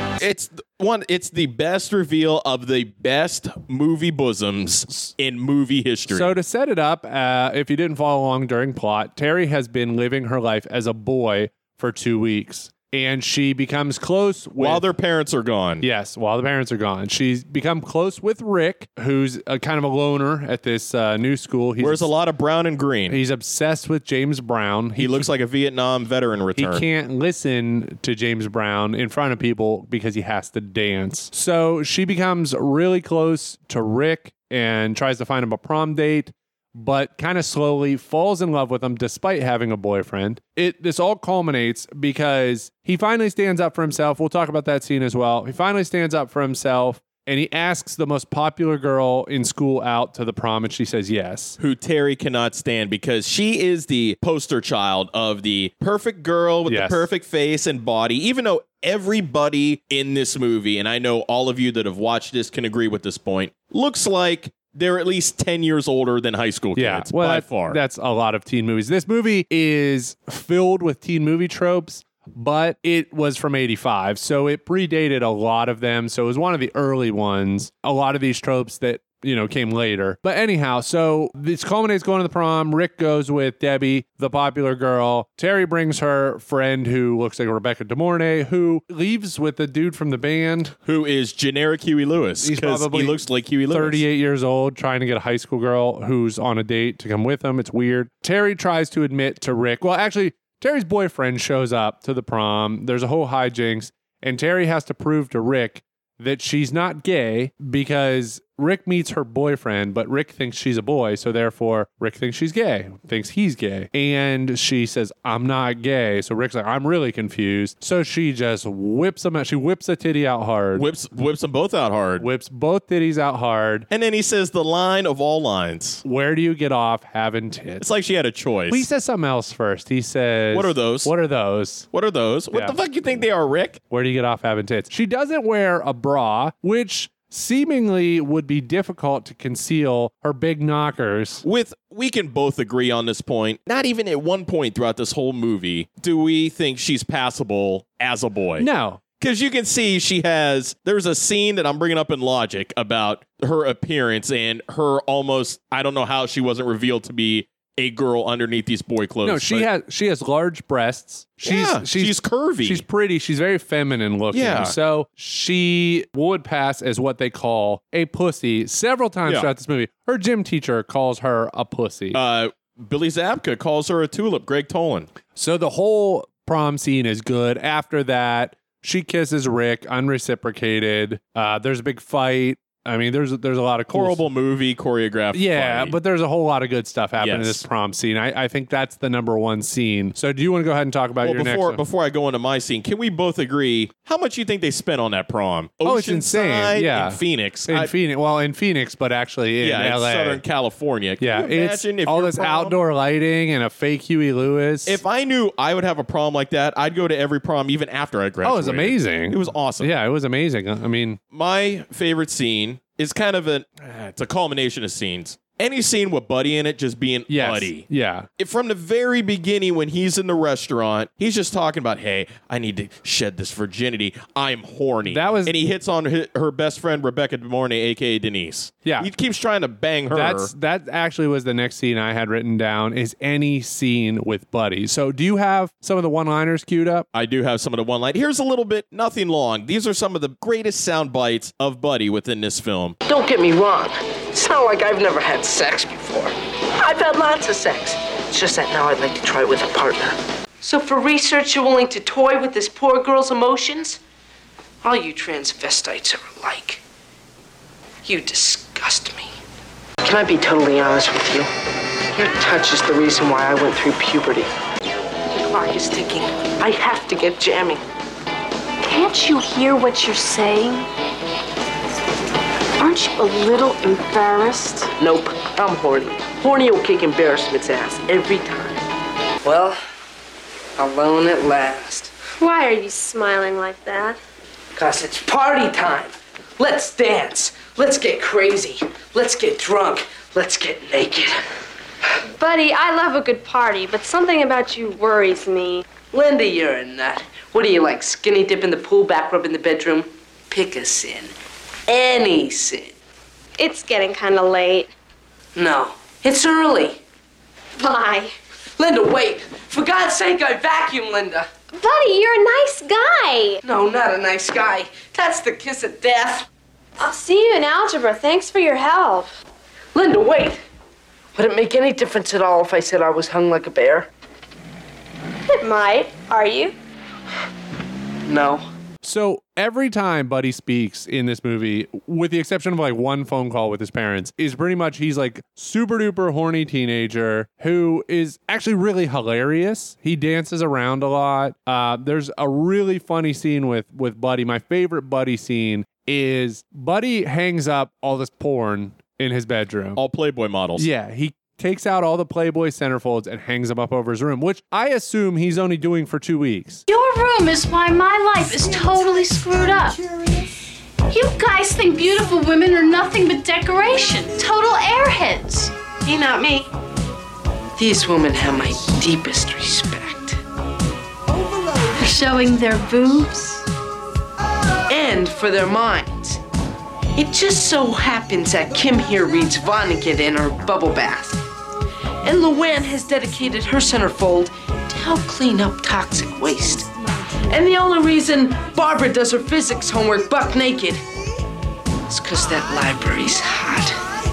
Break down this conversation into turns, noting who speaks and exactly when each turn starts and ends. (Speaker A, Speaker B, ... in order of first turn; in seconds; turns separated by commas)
Speaker A: 0.2-6.3, Speaker B: 6.1-14.8, Speaker A: 14.6-15.8, Speaker B: 15.8-22.1, Speaker A: 21.8-23.2, Speaker B: 23.1-25.3, Speaker A: 25.0-26.9, Speaker B: 26.6-51.6, Speaker A: 51.6-67.8, Speaker B: 56.7-57.1, Speaker B: 66.8-90.8, Speaker A: 90.9-94.0, Speaker B: 92.4-120.9, Speaker A: 120.8-122.3, Speaker B: 122.2-123.9, Speaker A: 123.9-126.0, Speaker B: 126.0-127.9, Speaker A: 127.8-128.9, Speaker B: 128.7-131.9, Speaker A: 130.5-131.1, Speaker A: 131.9-133.8, Speaker B: 132.5-133.3, Speaker B: 133.9-141.4, Speaker A: 141.4-148.7, Speaker B: 148.6-149.0, Speaker A: 149.2-159.7, Speaker B: 159.2-172.2, Speaker A: 161.5-162.8, Speaker A: 164.3-164.7, Speaker A: 172.1-175.1, Speaker B: 175.4-184.3, Speaker A: 183.9-186.0, Speaker B: 185.3-191.8, Speaker A: 187.2-187.7, Speaker A: 191.2-197.9, Speaker B: 195.8-200.4, Speaker A: 199.6-202.8, Speaker B: 201.2-205.0, Speaker A: 204.9-209.9, Speaker B: 208.4-211.2, Speaker A: 211.3-217.9, Speaker B: 217.3-218.3, Speaker A: 218.4-230.5, Speaker B: 225.1-225.6, Speaker B: 228.8-229.1, Speaker B: 230.1-237.1, Speaker A: 237.1-243.0, Speaker C: 243.1-254.0, Speaker C: 254.8-256.8, Speaker C: 258.0-259.3, Speaker C: 260.0-261.5, Speaker C: 262.1-264.5, Speaker C: 265.3-267.8, Speaker D: 268.8-270.9, Speaker D: 272.8-274.9, Speaker C: 275.0-278.8, Speaker C: 279.4-279.8, Speaker C: 280.8-282.1, Speaker E: 282.4-284.2, Speaker C: 284.8-291.4, Speaker E: 292.4-295.9, Speaker C: 296.1-301.3, Speaker C: 301.9-302.9, Speaker E: 303.6-304.9, Speaker C: 305.6-307.0, Speaker E: 307.8-308.4, Speaker C: 308.8-311.5, Speaker E: 311.8-313.6, Speaker C: 313.6-316.5, Speaker E: 317.0-319.4, Speaker C: 319.9-320.6, Speaker C: 321.3-324.1, Speaker E: 325.5-326.8, Speaker C: 328.3-328.7, Speaker B: 329.0-350.0, Speaker A: 350.0-350.9, Speaker B: 350.8-356.9, Speaker F: 356.9-360.0, Speaker F: 361.1-365.7, Speaker C: 366.1-366.7, Speaker C: 367.8-370.4, Speaker F: 371.9-373.7, Speaker C: 374.9-376.4, Speaker C: 377.1-381.4, Speaker C: 382.2-386.9, Speaker C: 387.5-391.0, Speaker C: 392.1-394.0